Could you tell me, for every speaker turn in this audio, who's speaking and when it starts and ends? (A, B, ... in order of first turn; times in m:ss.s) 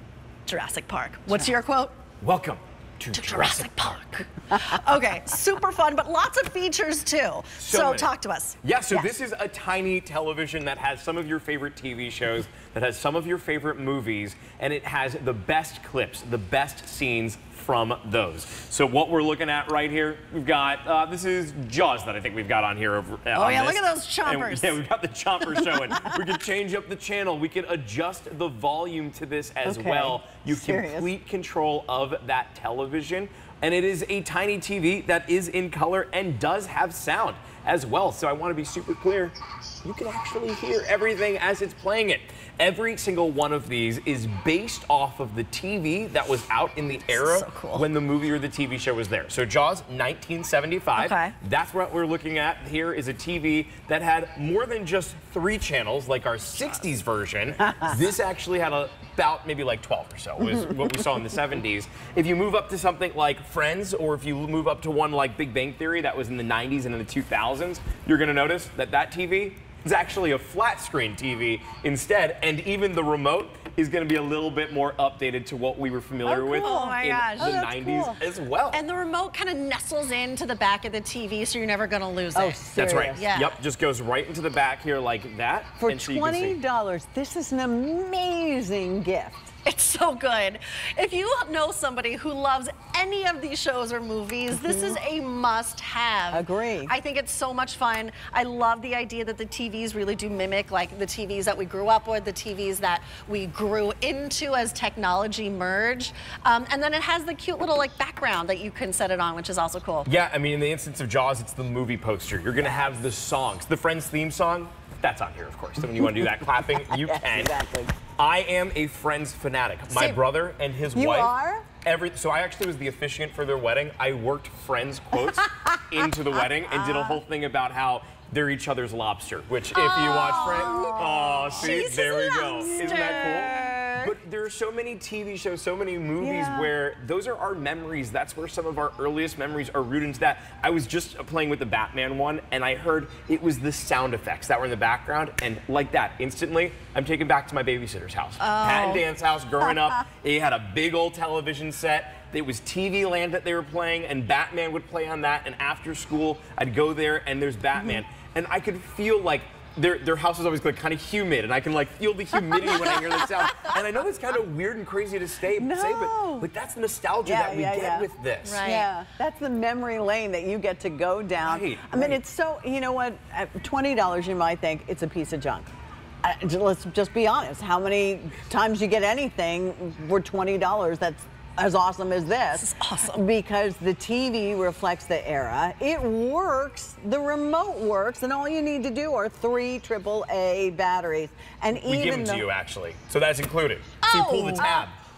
0:00.5-0:02.0 A
0:02.2-0:04.0 B
0:03.1-0:08.6 A
0:07.6-0:08.1 B
0:08.6-1:18.8 B
0:23.3-0:24.8 A
0:29.6-0:31.1 C
0:47.1-0:47.9 A
0:51.0-0:51.4 A
1:16.2-1:18.2 C
1:16.6-1:17.7 A
1:18.7-1:22.6 A
1:22.3-1:23.3 C
1:22.8-1:26.6 B
1:23.1-1:23.6 A
1:25.8-1:29.5 C
1:29.6-1:50.1 A
1:34.6-1:35.0 C
1:36.3-1:36.9 C
1:50.1-1:57.6 B
1:56.9-1:58.0 C
1:58.2-2:01.3 B
1:59.9-2:00.2 A
2:00.9-2:01.7 C
2:01.8-2:48.6 B
2:05.5-2:06.0 C
2:06.7-2:07.2 C
2:09.7-2:14.1 A
2:10.4-2:11.8 C
2:12.6-2:13.2 C
2:16.2-2:16.7 C
2:28.4-2:29.0 A
2:45.5-2:46.5 C
2:47.2-2:48.1 C
2:48.4-2:48.9 A
2:48.6-2:55.7 C
2:51.4-2:52.2 B
2:56.2-3:12.5 C
3:02.6-3:03.2 A
3:11.7-3:15.0 B
3:14.0-3:14.8 A
3:14.6-3:14.8 C